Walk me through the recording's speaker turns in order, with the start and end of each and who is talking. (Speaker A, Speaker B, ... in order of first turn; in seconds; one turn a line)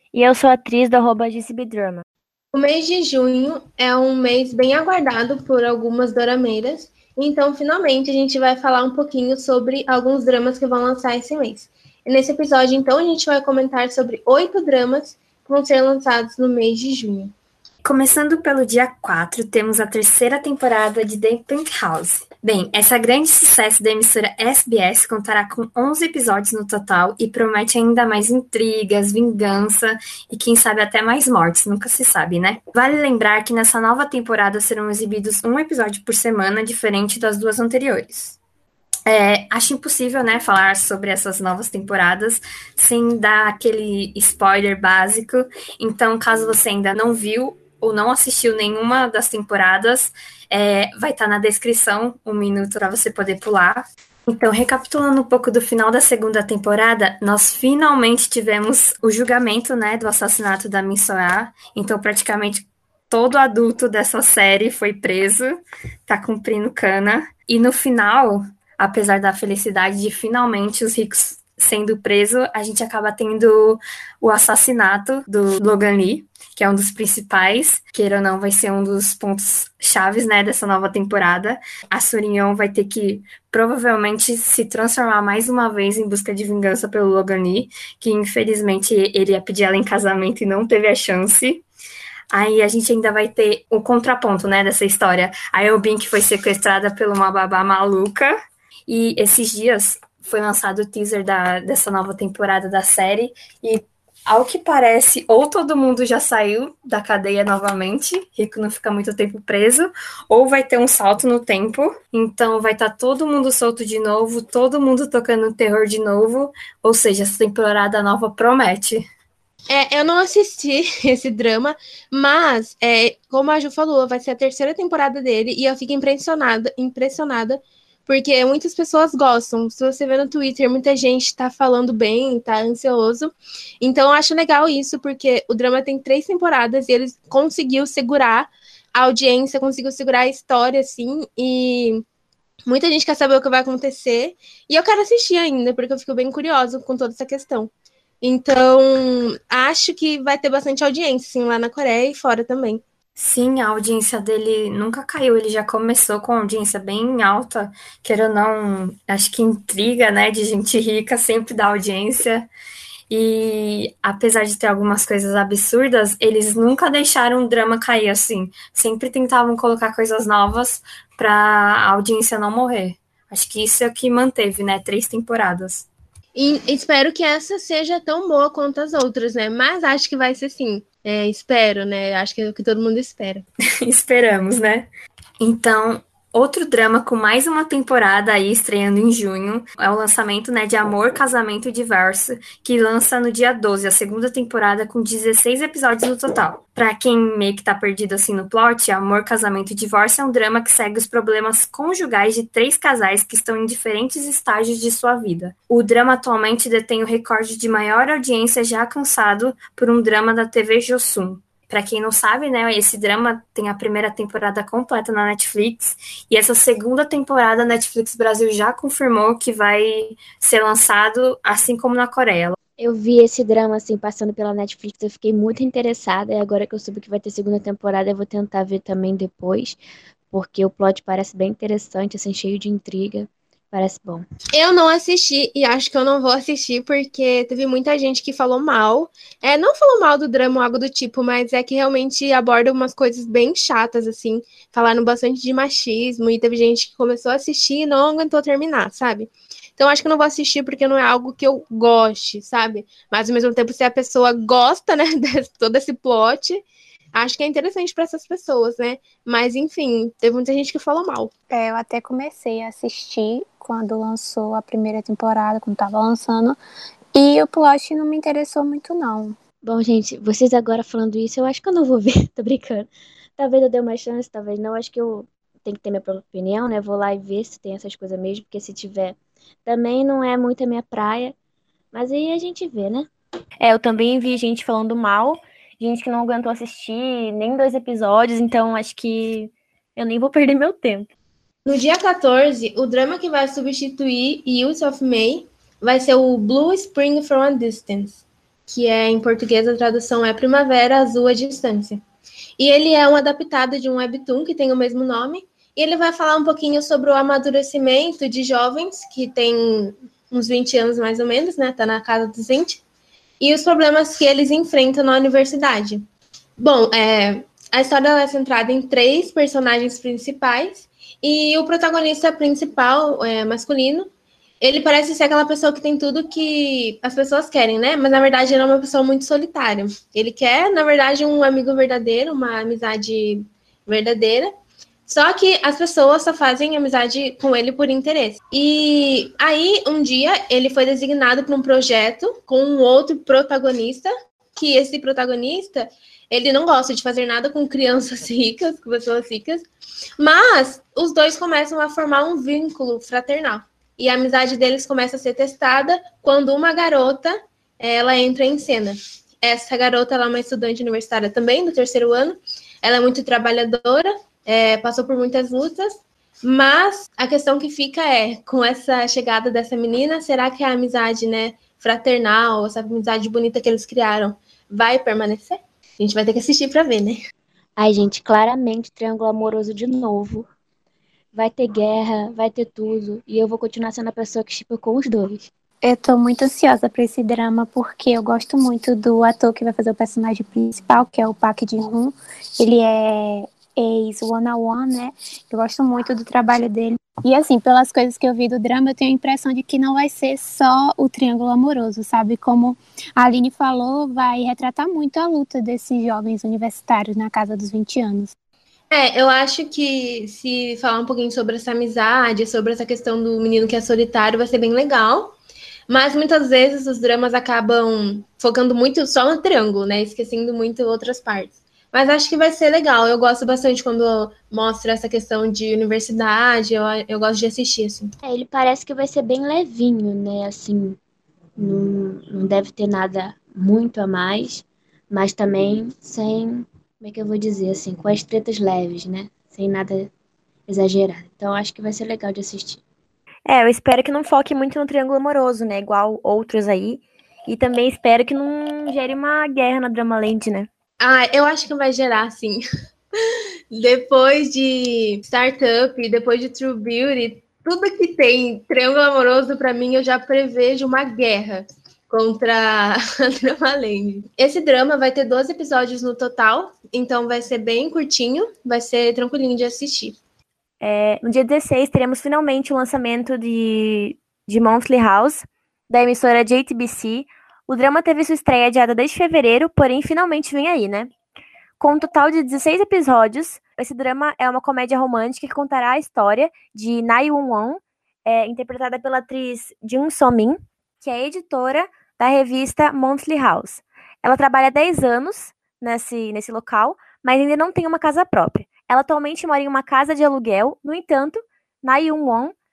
Speaker A: 0.1-2.0
Speaker B: 2.5-17.3
Speaker C: 17.8-38.4
Speaker C: 39.0-91.6
Speaker C: 92.3-98.3
Speaker C: 98.9-119.0
Speaker B: 119.7-142.0
Speaker B: 142.7-147.7
Speaker B: 148.2-152.8
Speaker C: 153.2-162.5
Speaker C: 163.1-175.9
Speaker B: 176.3-183.4
Speaker C: 183.8-184.9
Speaker C: 185.4-222.6
Speaker D: 222.8-229.8
Speaker D: 230.3-234.2
Speaker B: 234.5-256.6
Speaker B: 257.1-261.3
Speaker E: 261.5-266.6
Speaker E: 267.1-269.4
Speaker D: 269.6-281.4
Speaker D: 281.9-283.1
Speaker A: 283.6-291.1
Speaker B: 291.6-302.0
Speaker B: 302.6-312.8
Speaker B: 313.4-316.0
Speaker B: 316.6-324.1
Speaker B: 324.6-334.5
Speaker B: 335.1-349.6
Speaker B: 350.2-377.2
Speaker D: 377.8-380.4
Speaker D: 381.3-385.5
Speaker E: 385.8-408.3
Speaker B: 408.9-415.3
Speaker B: 415.9-428.1
Speaker D: 428.2-431.0
Speaker D: 431.6-440.1
Speaker D: 440.7-442.8
Speaker A: 443.4-450.7
Speaker B: 451.0-452.6
Speaker B: 453.3-470.2
Speaker A: 470.8-481.1
Speaker A: 481.8-502.5